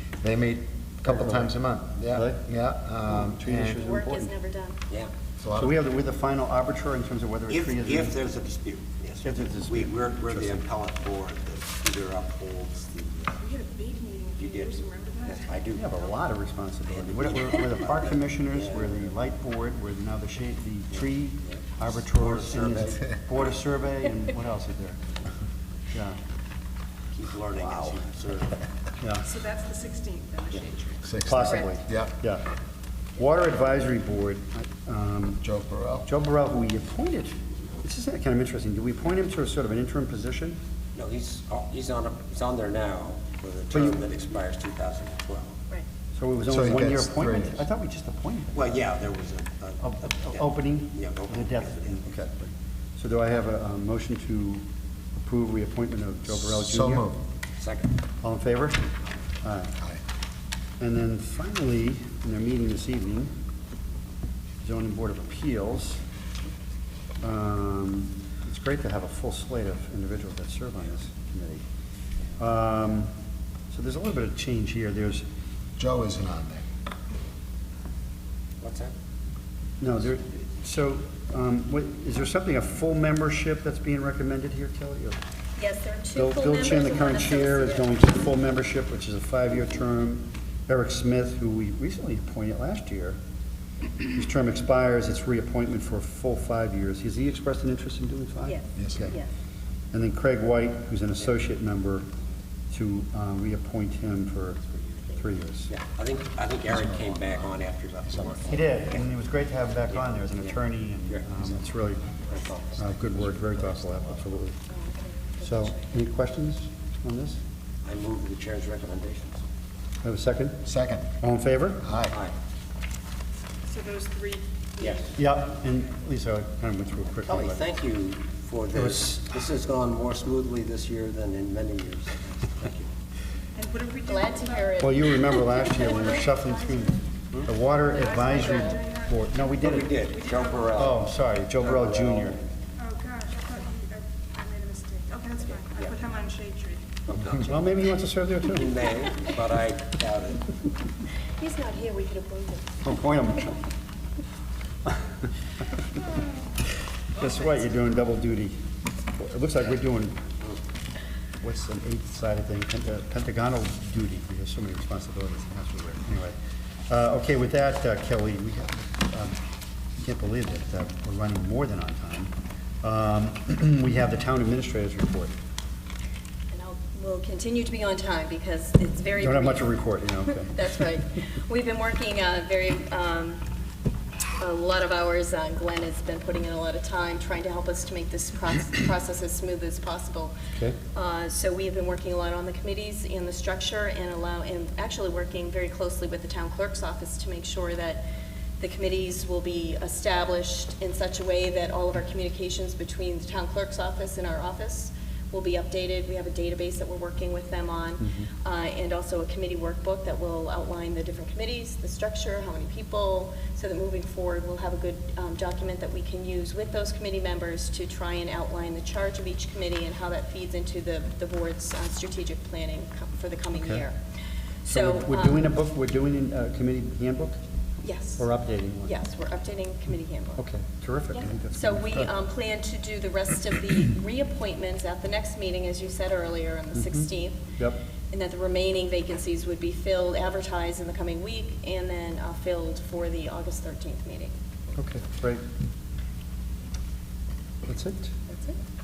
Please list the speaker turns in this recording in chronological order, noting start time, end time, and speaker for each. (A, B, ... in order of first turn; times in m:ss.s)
0:00.2-0:03.8 A
0:01.0-0:01.5 B
0:02.1-0:02.4 B
0:03.0-0:04.3 B
0:03.8-0:04.8 C
0:05.4-0:05.8 A
0:05.6-0:08.2 B
0:07.5-0:13.4 D
0:09.2-0:10.6 B
0:13.4-0:16.2 E
0:14.4-0:16.0 D
0:15.8-0:25.2 B
0:16.9-0:19.2 D
0:20.9-0:23.5 D
0:25.9-0:26.2 B
0:27.1-0:28.7 D
0:27.6-0:28.0 B
0:29.0-0:29.3 B
0:29.2-0:31.5 E
0:31.0-0:32.1 A
0:31.2-0:32.4 B
0:31.4-0:31.7 C
0:33.2-0:35.4 B
0:35.4-0:36.1 A
0:36.0-0:40.6 B
0:41.0-0:45.6 D
0:43.7-0:44.0 B
0:46.1-0:48.7 B
0:46.5-0:47.6 A
0:48.5-0:52.1 D
0:49.8-0:54.6 B
0:55.2-0:57.1 B
0:56.3-0:57.2 A
0:57.6-0:58.0 D
0:58.2-0:58.8 B
0:59.4-0:59.7 B
1:00.8-1:03.4 B
1:04.6-1:06.0 B
1:07.2-1:11.6 B
1:12.4-1:13.1 B
1:13.7-1:15.2 B
1:15.8-1:16.6 A
1:18.6-1:18.9 D
1:19.8-1:25.2 B
1:25.6-1:27.9 C
1:26.1-1:33.2 B
1:34.0-1:39.2 B
1:38.4-1:39.3 C
1:38.8-1:39.1 A
1:39.9-1:42.1 B
1:42.7-1:45.7 B
1:45.7-1:49.1 D
1:46.7-1:47.2 A
1:48.1-1:48.6 A
1:48.5-1:52.2 B
1:49.9-1:51.3 D
1:52.3-1:52.9 D
1:52.8-1:54.6 B
1:53.1-1:54.0 A
1:54.7-1:55.9 C
1:55.4-1:57.4 B
1:57.8-1:59.4 D
2:00.0-2:00.6 B
2:00.6-2:01.1 A
2:01.2-2:01.8 B
2:01.8-2:02.2 A
2:02.1-2:02.4 D
2:03.7-2:05.9 E
2:04.8-2:05.1 D
2:05.2-2:07.6 B
2:07.2-2:12.9 D
2:08.7-2:09.3 B
2:13.6-2:21.0 E
2:14.1-2:15.9 C
2:14.8-2:20.0 B
2:17.9-2:18.8 C
2:19.6-2:21.1 D
2:20.8-2:22.4 B
2:21.6-2:22.5 D
2:22.8-2:27.0 E
2:25.4-2:26.0 D
2:27.1-2:27.7 D
2:27.3-2:28.8 B
2:28.5-2:30.5 D
2:31.4-2:33.0 C
2:32.8-2:33.6 B
2:37.2-2:40.3 B
2:41.4-2:46.4 B
2:46.9-2:49.4 B
2:50.0-2:52.3 B
2:52.8-2:55.3 B
2:56.5-3:03.4 C
2:59.2-3:00.5 B
3:04.4-3:10.3 C
3:10.9-3:18.0 C
3:18.6-3:44.0 C
3:28.0-3:28.3 B
3:43.5-3:43.8 B
3:44.6-3:45.5 C
3:44.7-3:47.4 B
3:47.8-3:48.3 C
3:48.2-3:49.0 B
3:48.8-3:50.4 C
3:50.4-3:52.1 B
3:51.1-3:57.4 C
3:56.7-3:57.8 B
3:58.1-4:04.3 C
4:04.8-4:05.4 B
4:07.7-4:08.1 B
4:08.3-4:08.6 C